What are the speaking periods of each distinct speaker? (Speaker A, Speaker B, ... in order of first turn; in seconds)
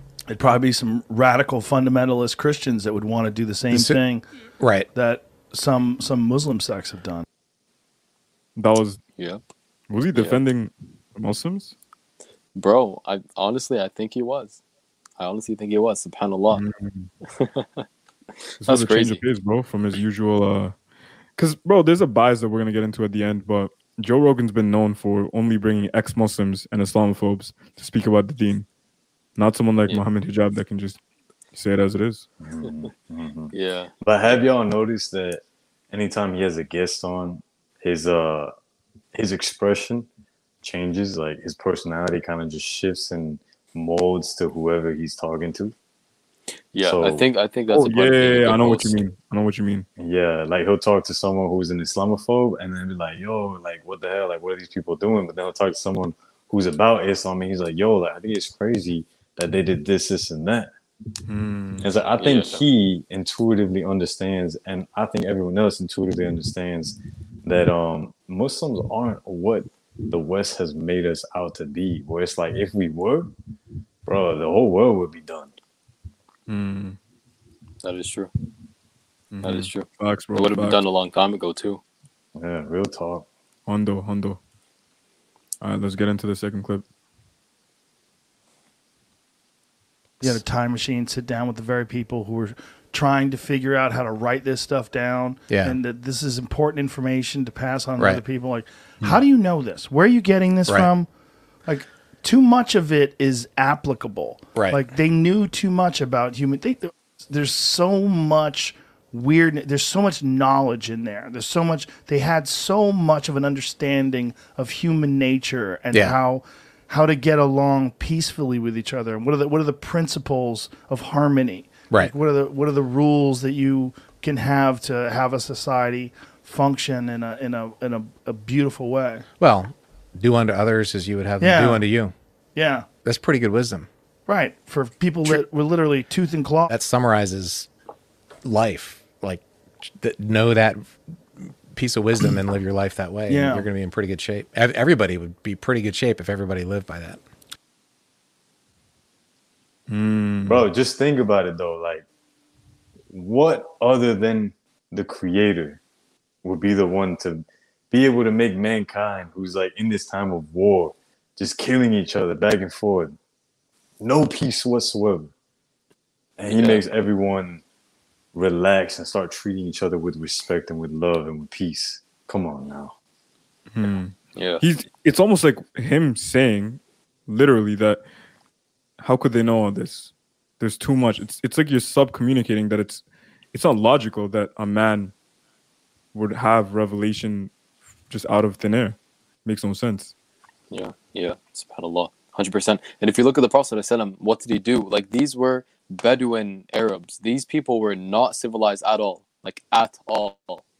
Speaker A: 0.3-4.2, 4.9-7.2, 90.2-101.1, 101.7-129.2, 131.4-131.8, 132.5-132.9, 134.2-136.7, 143.3-143.7
Speaker B: 3.7-4.0, 4.6-4.9, 95.5-95.8, 104.5-104.8, 129.4-132.1, 133.0-133.9, 136.7-137.7, 138.4-147.2
Speaker C: 8.6-9.0, 9.9-11.7, 16.5-17.1, 18.6-20.7, 21.4-28.7, 29.4-31.0, 31.5-32.2, 47.7-49.9, 61.2-61.9, 76.5-77.0, 79.3-80.8, 83.7-84.4, 85.6-86.8, 149.9-150.7, 173.7-178.0, 179.0-185.1, 186.1-187.5, 188.1-190.1
Speaker D: 10.1-10.4, 12.5-14.6, 15.2-16.6, 17.4-17.8, 18.6-19.2, 33.5-34.4, 46.7-49.0, 62.2-62.6, 77.8-78.3, 79.4-81.8, 166.4-166.8, 173.8-174.6, 190.7-200.6
Speaker E: 32.4-38.5, 39.1-40.1, 40.6-45.7, 46.8-47.3, 50.0-60.7, 61.8-73.3, 74.0-75.5, 82.3-83.3, 150.4-152.1, 153.1-155.8, 156.4-163.2, 164.0-165.3, 166.4-167.6, 168.3-172.9